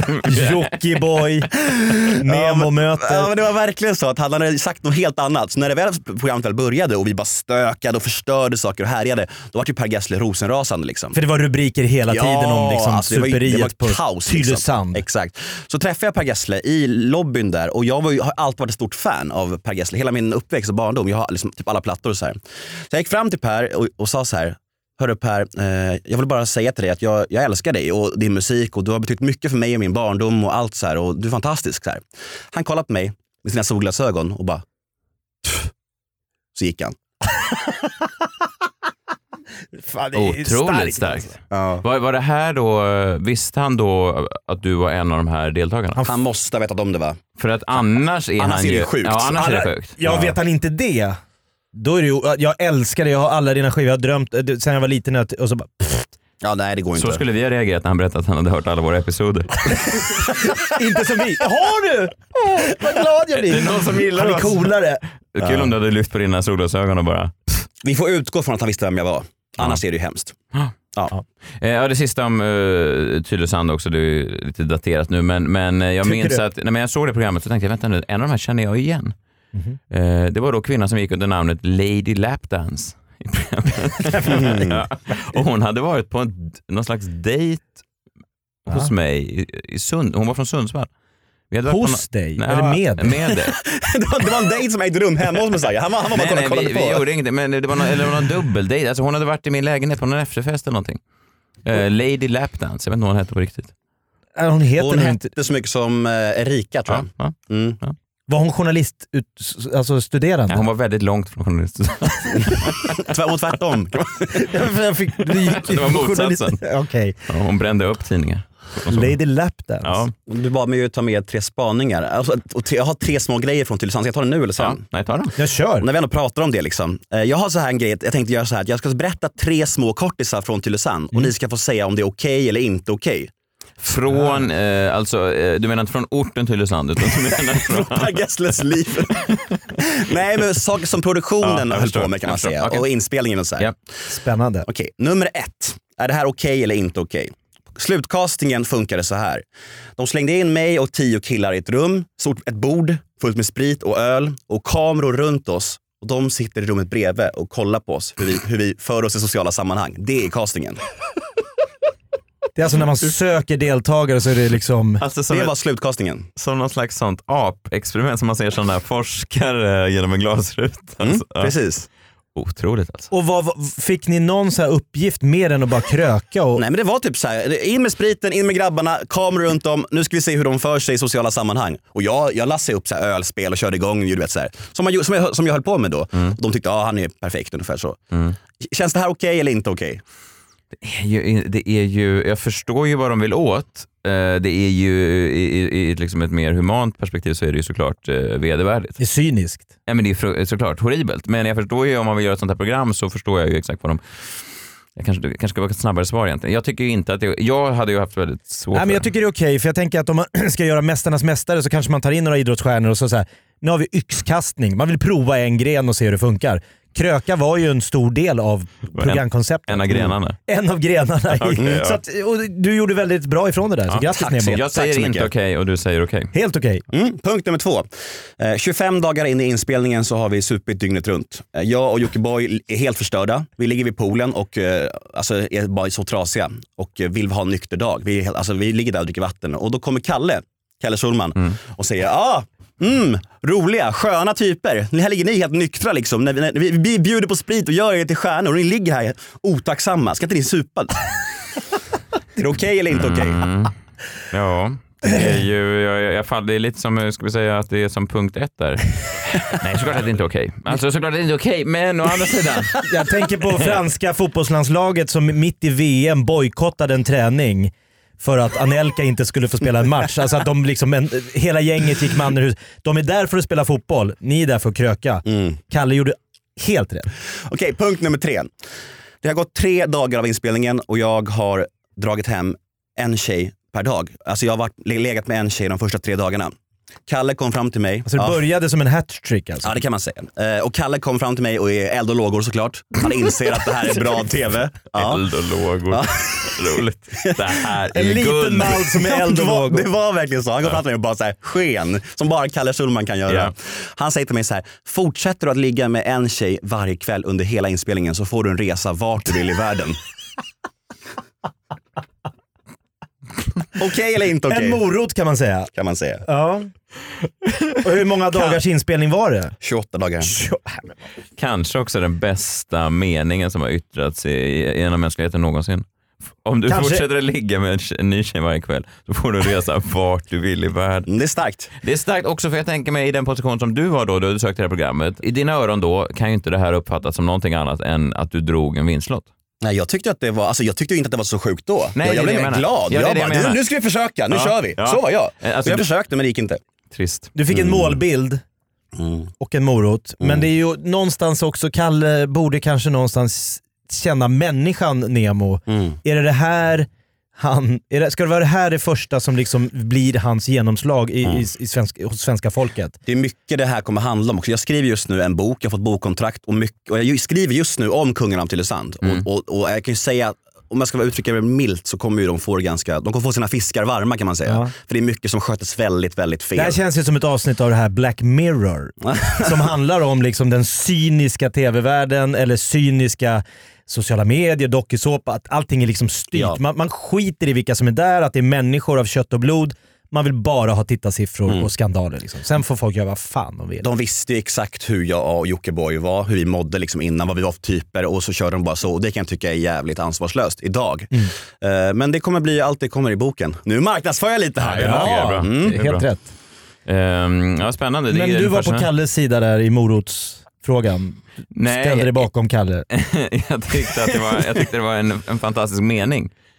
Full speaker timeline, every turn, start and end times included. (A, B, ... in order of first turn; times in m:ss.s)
0:00.3-0:01.5 A
0:00.3-0:00.6 B
0:01.7-0:11.2 C
0:02.2-0:03.3 A
0:11.2-0:15.0 A
0:12.1-0:34.6 C
0:35.4-0:35.7 C
0:36.6-0:37.0 C
0:39.8-0:41.3 A
0:40.2-0:46.0 B
0:41.5-0:41.8 C
0:46.0-0:47.2 C
0:47.4-0:50.0 B
0:48.4-0:49.4 C
0:49.4-0:51.2 A
0:50.0-0:50.4 C
0:51.7-0:56.1 A
0:56.4-0:57.2 C
0:57.0-1:00.0 B
1:00.4-1:05.0 A
1:03.4-1:07.6 B
1:05.4-1:05.7 C
1:07.8-1:10.4 C
1:11.6-1:19.1 B
1:16.0-1:16.4 A
1:19.9-1:27.8 B
1:24.3-1:24.8 C
1:28.7-1:30.9 B
1:31.5-1:33.6 B
1:31.7-1:33.2 A
1:33.6-1:37.0 C
1:36.1-1:41.0 B
1:41.6-1:43.7 B
1:44.4-1:45.3 A
1:44.8-1:47.8 C
1:46.9-1:48.0 B
1:48.3-1:50.6 A
1:50.5-1:52.9 B
1:52.9-1:54.5 C
1:54.4-1:57.2 A
1:55.5-1:56.6 B
1:57.3-1:59.2 B
1:58.9-2:00.0 A
1:59.8-2:00.1 B
2:00.3-2:04.8 C
2:04.6-2:05.3 B
2:05.4-2:05.9 A
2:05.8-2:13.3 C
2:13.8-2:18.2 B
2:17.4-2:23.7 C
2:21.4-2:22.8 B
2:24.1-2:24.7 A
2:24.7-2:29.4 C
2:30.0-2:40.8 C
2:42.6-2:45.0 A
2:45.0-2:45.5 B
2:45.3-2:46.3 C
2:46.4-2:51.5 B
2:51.0-2:51.9 C
2:52.4-2:53.1 B
2:53.1-2:56.6 A
2:56.6-3:08.0 C
3:08.1-3:08.4 B
3:08.6-3:10.0 C
3:10.8-3:19.0 B
3:19.0-3:19.7 A
3:19.9-3:29.0 B
3:28.7-3:44.6 A
3:39.0-3:40.4 B
3:41.4-3:42.0 B
3:43.9-3:46.3 B
3:44.1-3:45.3 C
3:46.3-3:46.8 A
3:46.9-4:11.1 C
4:12.4-4:13.4 C
4:12.9-4:13.7 B
4:14.3-4:22.8 B
4:22.9-4:37.1 A
4:35.3-4:35.6 C
4:37.3-4:38.5 C
4:39.2-4:46.5 C
4:47.1-4:48.4 C
4:48.1-4:49.8 A
4:49.6-4:55.3 C
4:54.9-4:58.9 B
4:55.9-4:57.5 C
4:58.0-4:59.9 A
4:59.0-5:10.0 C
5:13.8-5:14.8 C
5:14.5-5:15.7 A
5:15.7-5:16.2 C
5:16.3-5:16.7 A
5:17.8-5:19.6 A
5:19.6-5:20.4 C
5:20.2-5:20.9 A
5:21.4-5:25.8 B
5:26.4-5:31.1 B
5:26.7-5:27.0 A
5:31.1-5:31.7 C
5:31.8-5:39.3 B
5:39.6-5:46.6 C
5:42.0-5:43.6 B
5:44.3-5:45.9 B
5:46.9-5:47.3 B
5:47.4-5:48.4 A
5:47.5-5:48.0 C
5:49.0-5:49.3 C
5:49.4-6:03.0 A
5:50.2-5:50.4 C
5:55.7-5:56.0 C
6:03.1-6:16.8 C
6:14.5-6:14.7 A
6:16.6-6:33.9 A
6:19.0-6:19.6 C
6:26.3-6:26.6 C
6:33.8-6:45.8 C
6:44.6-6:46.1 B
6:44.8-6:46.3 A
6:46.9-6:48.9 B
6:48.1-6:52.8 A
6:51.6-6:52.3 B
6:52.9-6:56.3 B